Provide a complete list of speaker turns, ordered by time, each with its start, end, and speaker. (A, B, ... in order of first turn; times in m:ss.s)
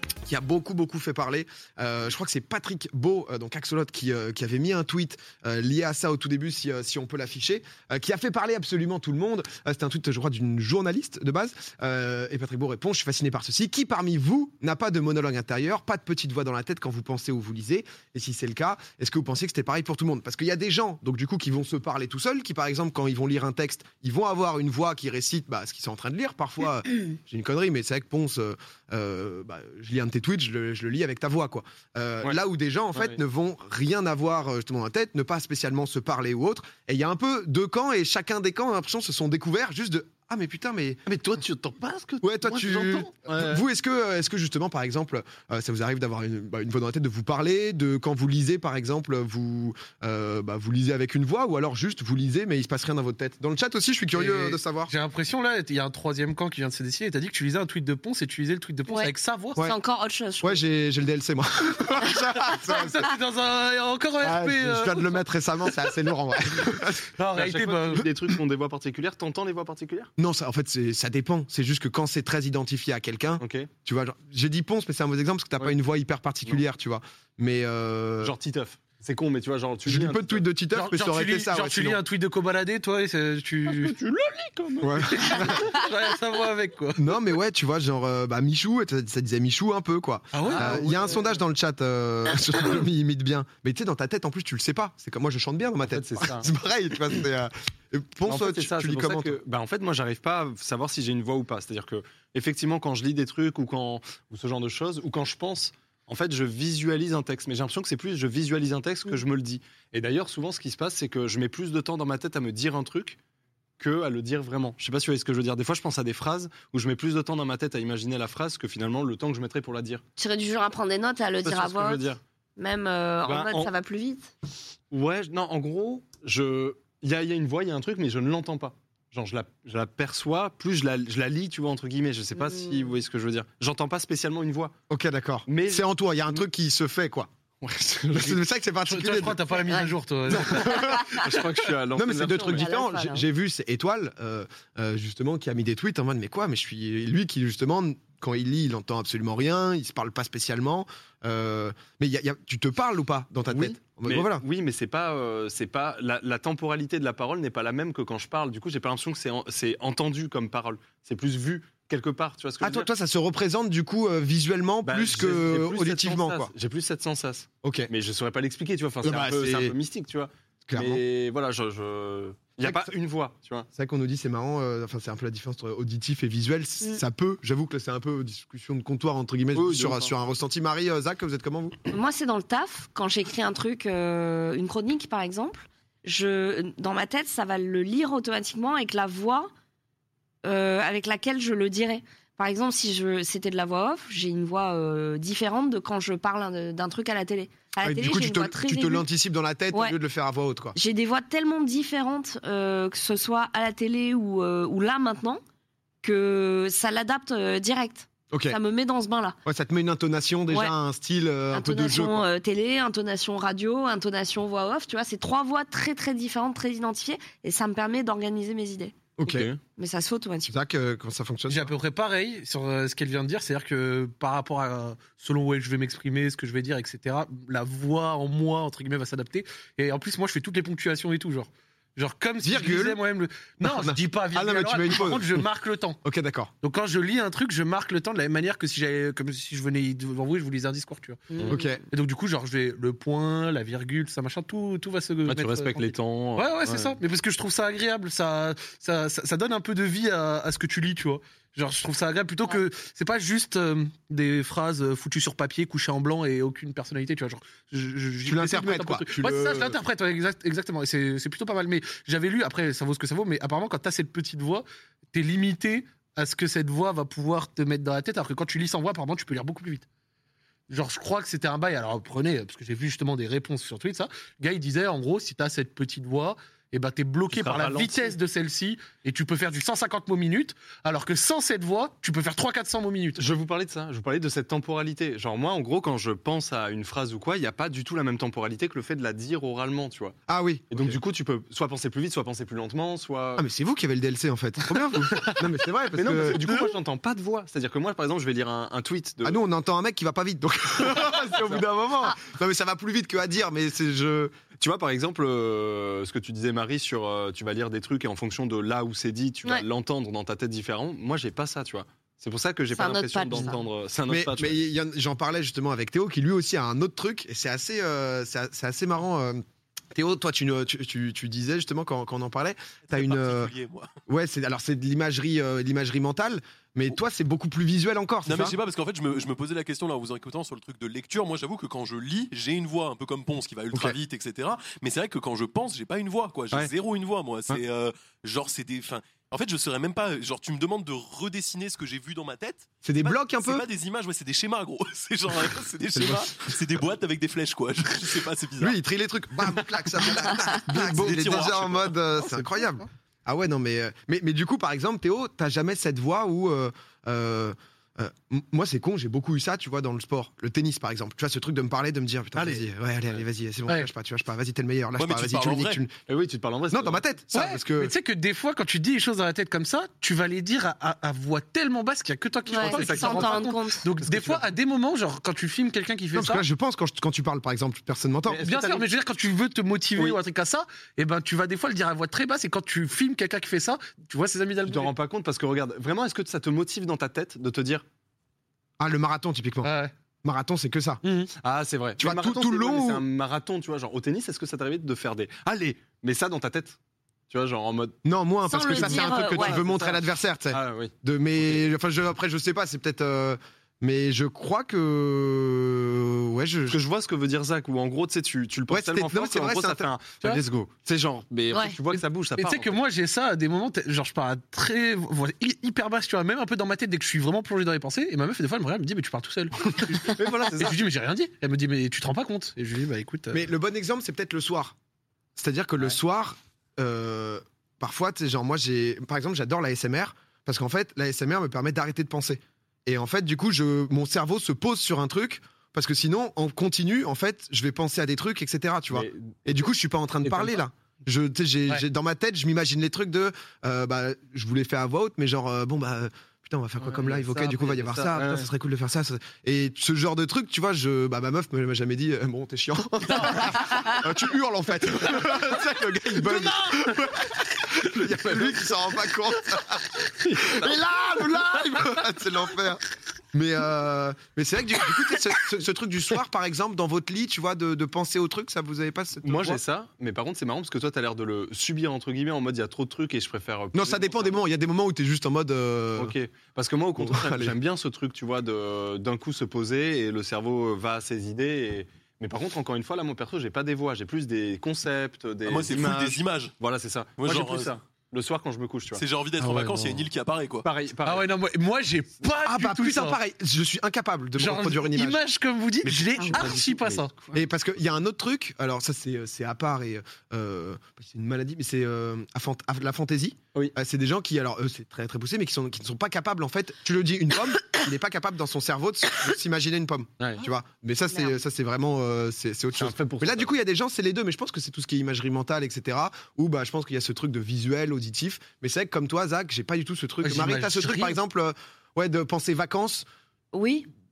0:00.2-0:41.0 A
0:32.9-0:33.2 B
0:41.1-0:43.6 B
0:42.2-0:54.9 A
0:54.1-0:59.6 C
0:58.9-1:00.6 D
1:00.4-1:03.1 A
1:02.5-1:05.7 C
1:04.2-1:07.1 A
1:07.1-1:08.1 C
1:07.3-1:10.1 B
1:10.2-1:18.4 A
1:13.4-1:13.7 B
1:18.2-1:20.4 B
1:19.9-1:22.0 A
1:20.7-1:23.9 C
1:23.7-1:25.5 B
1:24.8-1:25.8 A
1:25.1-1:27.0 C
1:27.0-1:39.4 A
1:30.3-1:31.0 C
1:30.4-1:31.4 B
1:35.9-1:36.5 B
1:38.3-1:53.2 B
1:53.8-2:00.0 B
2:00.2-2:04.3 D
2:01.4-2:02.2 B
2:03.3-2:03.7 B
2:04.9-2:14.7 B
2:12.4-2:12.9 D
2:14.9-2:17.3 A
2:15.5-2:15.9 B
2:17.6-2:18.4 B
2:18.1-2:19.5 A
2:18.8-2:21.4 C
2:20.3-2:22.7 B
2:20.7-2:21.0 A
2:20.7-2:21.2 D
2:21.9-2:34.4 A
2:22.4-2:23.3 D
2:33.5-2:42.9 B
2:42.6-2:46.5 A
2:44.8-2:53.7 B
2:47.6-2:47.9 A
2:49.0-2:49.8 A
2:50.7-2:51.0 A
2:52.6-2:52.9 A
2:53.8-3:01.8 A
2:59.5-3:00.1 B
3:01.9-3:09.5 D
3:10.4-3:19.1 D
3:17.8-3:20.8 A
3:20.8-3:25.4 D
3:26.0-3:29.4 D
3:28.3-3:28.6 A
3:29.4-3:32.3 A
3:31.5-3:38.9 D
3:39.2-3:39.5 A
3:39.2-3:39.6 B
3:39.7-3:40.5 D
3:40.4-3:41.7 A
3:41.5-3:56.0 C
3:52.4-3:53.0 A
3:53.6-3:55.5 A
3:56.0-3:56.5 A
3:56.6-4:29.9 C
4:01.4-4:01.6 B
4:01.5-4:01.8 A
4:05.2-4:07.0 B
4:18.2-4:19.8 A
4:30.7-4:43.2 C
4:37.3-4:38.2 B
4:43.2-4:50.2 B
4:50.3-4:51.0 A
4:50.7-4:53.5 B
4:53.4-4:56.5 A
4:54.7-4:55.4 B
4:55.9-4:59.4 B
4:59.2-5:04.3 A
5:04.6-5:14.6 B
5:12.7-5:13.6 D
5:14.1-5:19.4 A
5:19.9-5:23.5 A
5:22.9-5:23.9 E
5:24.1-5:28.6 A
5:28.3-5:48.8 E
5:42.8-5:43.7 A
5:46.0-5:46.2 A
5:48.6-6:05.9 A
5:50.0-5:52.4 E
6:02.4-6:03.2 B
6:05.0-6:05.8 E
6:06.1-6:07.0 B
6:06.7-6:07.9 A
6:07.3-6:16.4 C
6:12.5-6:13.9 D
6:12.7-6:13.4 B
6:14.0-6:14.4 B
6:16.1-6:18.4 A
6:18.3-6:18.9 B
6:18.4-6:24.9 C
6:24.6-6:27.8 B
6:28.8-6:31.0 A
6:29.6-6:29.9 C
6:31.0-6:31.3 C
6:31.4-6:36.8 B
6:32.0-6:33.0 A
6:37.3-6:38.0 B
6:38.0-6:46.8 A
6:38.5-6:39.6 D
6:38.7-6:41.6 B
6:46.7-6:52.8 B
6:48.7-6:49.9 A
6:51.5-6:51.8 D
6:51.9-7:03.5 C
7:00.0-7:00.8 B
7:00.1-7:00.8 A
7:03.3-7:04.8 A
7:05.4-7:42.8 A
7:18.9-7:19.6 B
7:20.2-7:20.6 B
7:26.8-7:28.5 B
7:38.1-7:38.7 B
7:40.2-7:40.8 B
7:43.3-7:49.6 A
7:49.2-7:54.4 B
7:53.7-7:56.2 A
7:56.0-8:09.0 B
7:57.0-7:57.6 A
8:05.4-8:06.6 E
8:07.2-8:07.8 E
8:09.0-8:10.7 E
8:09.4-8:10.0 C
8:10.6-8:11.3 B
8:11.0-8:13.2 C
8:12.4-8:15.2 A
8:14.4-8:17.4 C
8:15.8-8:16.6 A
8:16.2-8:17.1 B
8:17.3-8:43.1 A
8:31.1-8:31.3 D
8:32.8-8:33.5 B
8:40.2-8:41.2 C
8:43.5-8:43.9 D